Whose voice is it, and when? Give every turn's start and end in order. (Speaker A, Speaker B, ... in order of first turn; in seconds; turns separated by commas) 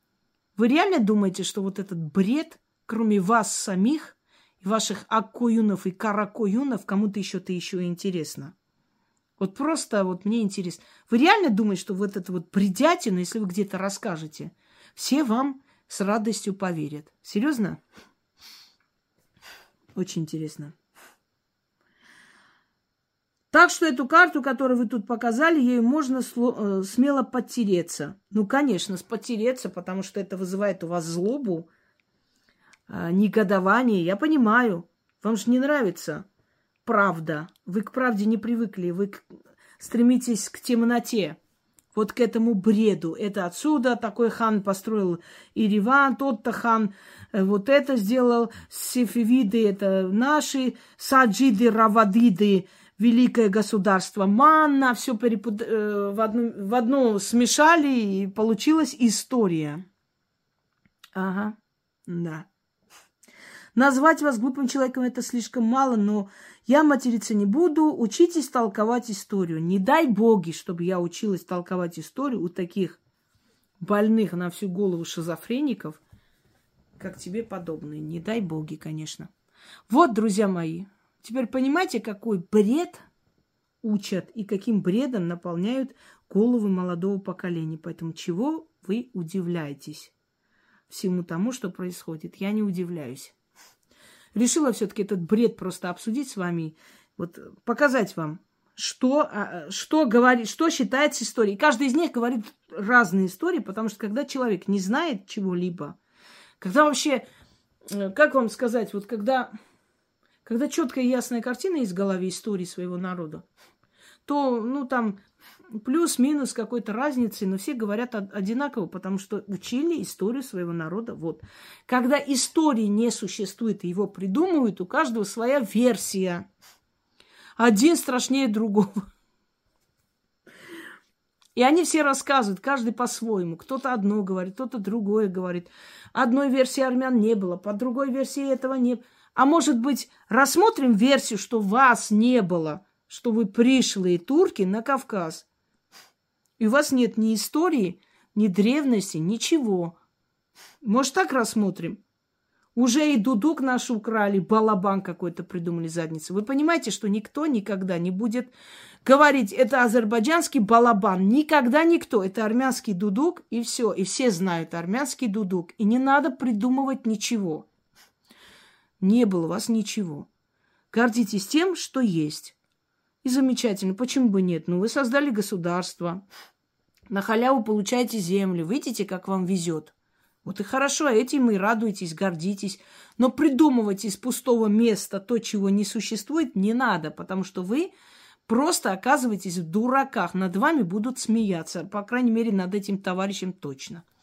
Speaker A: 0.6-8.5, Speaker A: 9.4-17.8, Speaker A: 19.9-20.7, Speaker A: 23.5-31.7, Speaker A: 32.9-36.2, Speaker A: 36.9-39.2, Speaker A: 39.8-41.4, Speaker A: 41.9-59.9, Speaker A: 61.1-61.6, Speaker A: 62.1-62.5, Speaker A: 63.8-73.0, Speaker A: 73.8-76.0, Speaker A: 77.0-79.3, Speaker A: 79.9-83.0, Speaker A: 83.8-90.1, Speaker A: 90.9-93.3, Speaker A: 94.3-106.0, Speaker A: 106.6-107.2, Speaker A: 107.9-109.5, Speaker A: 110.5-113.5, Speaker A: 114.3-115.2, Speaker A: 115.8-126.5, Speaker A: 127.6-129.0, Speaker A: 131.6-145.5, Speaker A: 146.6-150.0, Speaker A: 150.8-152.0, Speaker A: 152.8-158.5, Speaker A: 159.0-167.7, Speaker A: 169.0-170.3, Speaker A: 170.9-172.6, Speaker A: 173.2-176.2, Speaker A: 177.1-179.9, Speaker A: 180.4-187.9, Speaker A: 188.5-194.1